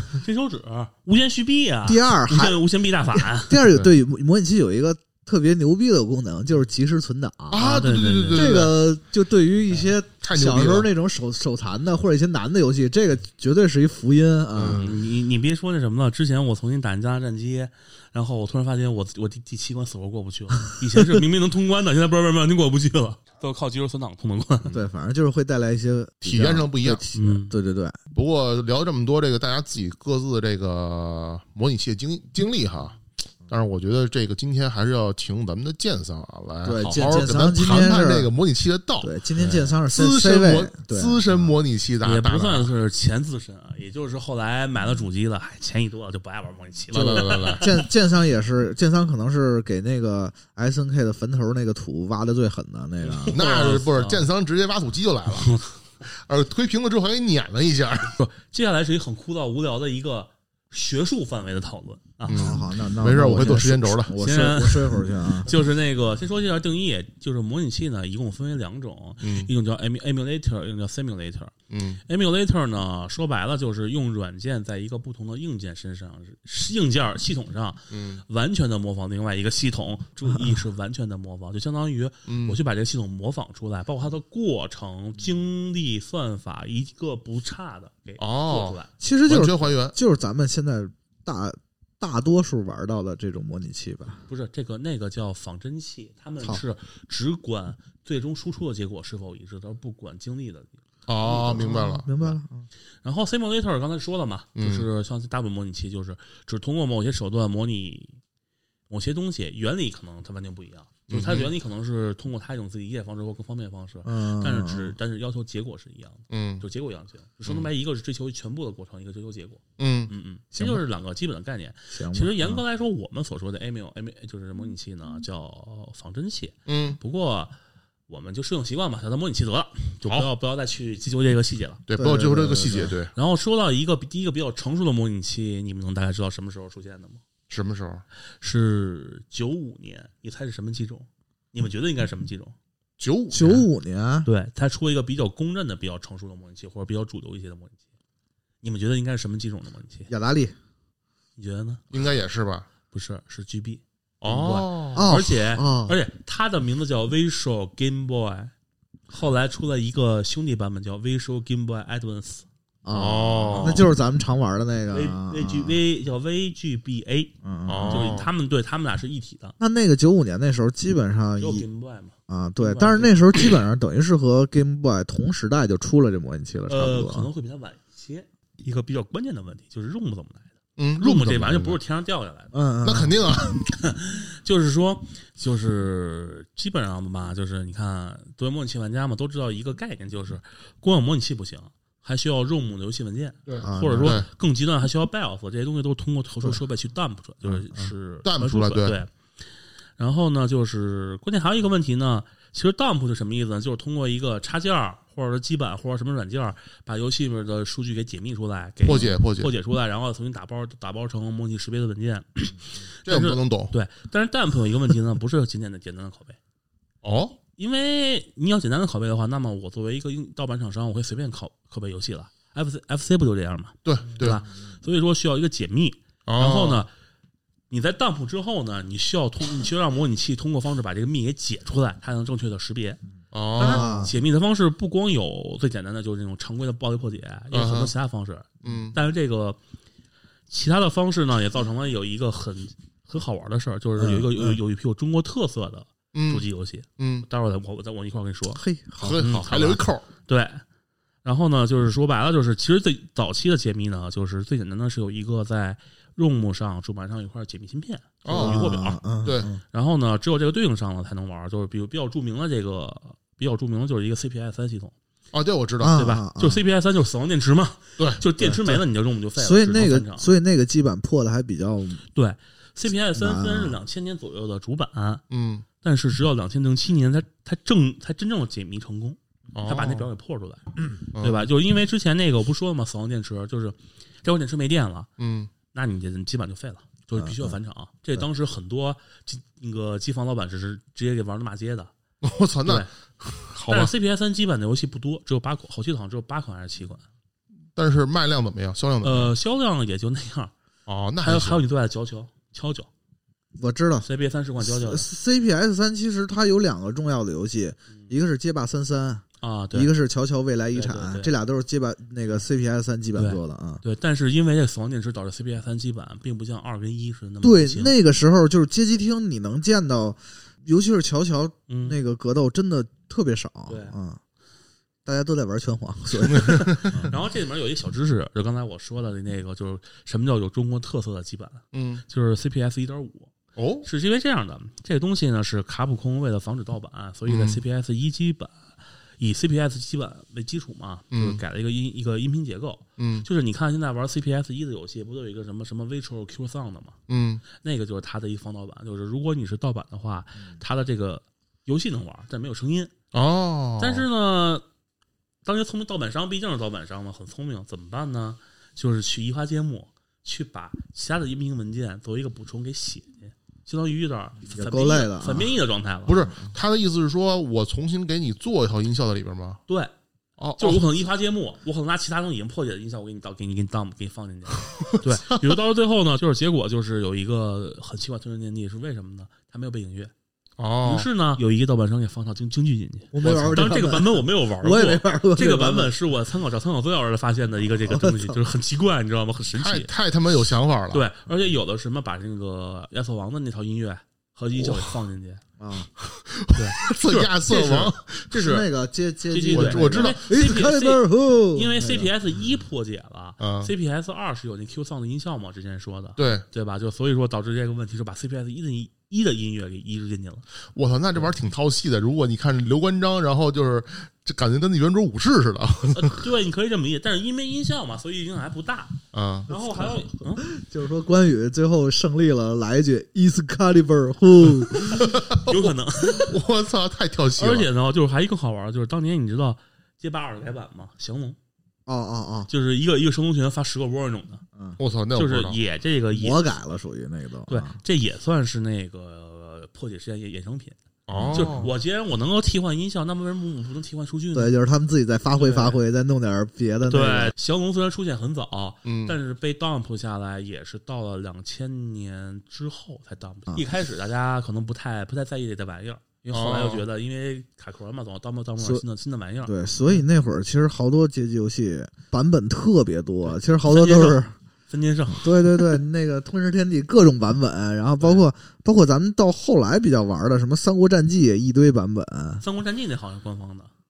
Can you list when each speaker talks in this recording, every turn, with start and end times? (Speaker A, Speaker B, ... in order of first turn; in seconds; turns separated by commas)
Speaker A: 0.2-3.6, Speaker B: 1.9-2.6, Speaker B: 3.2-14.8, Speaker C: 7.5-8.8, Speaker A: 7.5-8.7, Speaker C: 10.2-10.9, Speaker C: 14.6-15.0, Speaker A: 14.7-24.8, Speaker B: 24.7-28.0, Speaker C: 26.2-27.1, Speaker A: 27.1-27.5, Speaker C: 28.1-42.7, Speaker B: 36.6-38.3, Speaker B: 39.0-41.5, Speaker A: 42.0-47.8, Speaker C: 46.9-47.7, Speaker B: 46.9-53.4, Speaker A: 53.0-54.3, Speaker C: 53.3-58.2, Speaker A: 55.4-55.7, Speaker A: 58.1-62.5, Speaker C: 62.3-64.1, Speaker B: 62.3-65.5, Speaker A: 64.2-71.5, Speaker C: 69.2-69.5, Speaker C: 71.7-72.0, Speaker A: 72.1-88.9, Speaker C: 77.9-78.2, Speaker C: 82.3-82.6, Speaker C: 88.2-90.0, Speaker B: 89.0-94.2, Speaker A: 94.3-100.8, Speaker C: 101.1-102.1, Speaker B: 101.2-102.7, Speaker A: 102.1-102.4, Speaker A: 103.0-108.2, Speaker C: 104.6-104.9, Speaker A: 108.9-127.5, Speaker C: 111.1-111.5, Speaker B: 114.0-115.0, Speaker C: 116.3-116.6, Speaker C: 119.8-120.1, Speaker B: 120.5-120.8, Speaker B: 121.9-122.6, Speaker C: 126.7-127.0, Speaker A: 128.1-131.8, Speaker C: 131.9-133.1, Speaker B: 132.0-132.9, Speaker A: 133.1-137.2, Speaker C: 137.5-138.0, Speaker A: 138.4-142.6, Speaker C: 143.0-143.6, Speaker B: 143.3-144.3, Speaker A: 144.2-147.8, Speaker A: 148.6-150.1, Speaker B: 150.1-150.6, Speaker A: 151.4-151.8, Speaker C: 151.9-152.7, Speaker A: 152.9-158.5, Speaker C: 154.2-155.1, Speaker B: 154.9-156.0, Speaker A: 159.1-162.5, Speaker B: 162.8-165.8, Speaker C: 162.9-163.9, Speaker A: 163.5-163.8, Speaker A: 164.9-167.3, Speaker B: 167.4-168.2, Speaker C: 167.7-168.3, Speaker A: 167.9-169.6, Speaker B: 169.6-171.7, Speaker A: 171.4-173.5, Speaker B: 172.3-177.3, Speaker A: 176.7-182.5, Speaker C: 180.8-181.8, Speaker B: 182.5-183.2, Speaker C: 182.8-183.7, Speaker A: 183.7-199.1, Speaker C: 193.5-194.3, Speaker B: 193.6-194.2, Speaker B: 197.4-197.9, Speaker C: 198.2-199.0, Speaker A: 200.0-216.4, Speaker C: 208.8-209.5, Speaker C: 213.1-213.7, Speaker C: 217.0-217.4, Speaker A: 217.5-226.9, Speaker C: 223.8-224.5, Speaker C: 226.3-226.8, Speaker A: 227.7-233.0, Speaker C: 233.3-234.1, Speaker A: 233.6-239.6, Speaker B: 233.6-234.1, Speaker C: 237.5-237.9, Speaker C: 238.6-239.0, Speaker A: 240.5-248.6, Speaker B: 244.0-244.6, Speaker C: 246.1-246.4, Speaker C: 247.0-247.3, Speaker B: 248.5-249.8, Speaker C: 249.0-250.1, Speaker A: 249.2-249.5, Speaker A: 250.3-250.6, Speaker A: 251.2-259.1, Speaker C: 258.2-258.7, Speaker B: 258.3-259.6, Speaker C: 259.2-259.5, Speaker A: 259.7-264.9, Speaker C: 265.3-266.0, Speaker B: 265.8-266.6, Speaker A: 265.9-270.3, Speaker B: 268.4-268.8, Speaker B: 269.4-272.0, Speaker A: 272.1-275.2, Speaker B: 273.2-273.8, Speaker C: 275.3-275.7, Speaker A: 275.8-285.1, Speaker C: 279.5-280.1, Speaker C: 281.1-281.5, Speaker C: 285.2-285.5, Speaker A: 285.7-291.9, Speaker B: 287.2-287.6, Speaker C: 292.2-293.9, Speaker A: 292.6-292.9, Speaker A: 293.7-297.1, Speaker C: 297.8-299.3, Speaker A: 299.0-300.5, Speaker C: 300.9-301.6, Speaker A: 301.2-302.9, Speaker B: 303.6-304.1, Speaker A: 304.0-305.1, Speaker B: 304.6-313.8, Speaker A: 309.4-309.9, Speaker A: 310.7-311.3, Speaker A: 313.2-317.9, Speaker B: 317.4-324.2, Speaker A: 321.7-322.0, Speaker A: 323.7-324.0, Speaker B: 325.1-327.1, Speaker C: 326.2-327.1, Speaker A: 326.6-333.3, Speaker C: 331.7-332.0, Speaker C: 333.6-333.9, Speaker A: 333.8-347.0, Speaker C: 337.3-337.6, Speaker C: 341.1-341.4, Speaker C: 343.0-343.3, Speaker C: 347.1-347.4, Speaker A: 347.5-352.9, Speaker C: 353.1-354.1, Speaker A: 353.8-354.6, Speaker A: 355.4-366.3, Speaker B: 364.5-365.5, Speaker C: 366.1-369.6, Speaker A: 369.7-369.9, Speaker C: 370.4-370.9, Speaker A: 370.6-380.1, Speaker C: 380.6-381.1, Speaker A: 380.8-389.9, Speaker B: 383.1-385.9, Speaker B: 387.9-388.4, Speaker C: 389.6-391.1, Speaker A: 390.9-395.4, Speaker C: 394.6-395.0, Speaker B: 395.6-395.9, Speaker C: 396.0-398.3, Speaker A: 396.5-398.7, Speaker B: 398.3-402.1, Speaker A: 399.3-410.4, Speaker C: 399.5-400.2, Speaker C: 403.4-403.7, Speaker C: 406.2-406.4, Speaker C: 410.8-416.2, Speaker A: 415.9-420.5, Speaker C: 419.1-419.5, Speaker B: 419.5-425.2, Speaker C: 425.0-427.7, Speaker A: 425.0-426.4, Speaker A: 427.4-431.4, Speaker B: 431.9-432.5, Speaker A: 432.5-434.4, Speaker C: 434.8-435.6, Speaker A: 435.1-436.4, Speaker B: 436.2-437.8, Speaker A: 437.5-440.8, Speaker C: 441.1-441.7, Speaker B: 441.1-441.7, Speaker A: 441.3-444.5, Speaker B: 444.3-447.3, Speaker A: 445.4-445.8, Speaker A: 446.9-460.0, Speaker C: 448.9-449.2, Speaker C: 456.3-456.9, Speaker B: 459.4-464.3, Speaker A: 463.6-465.4, Speaker B: 465.1-472.4, Speaker A: 472.4-473.7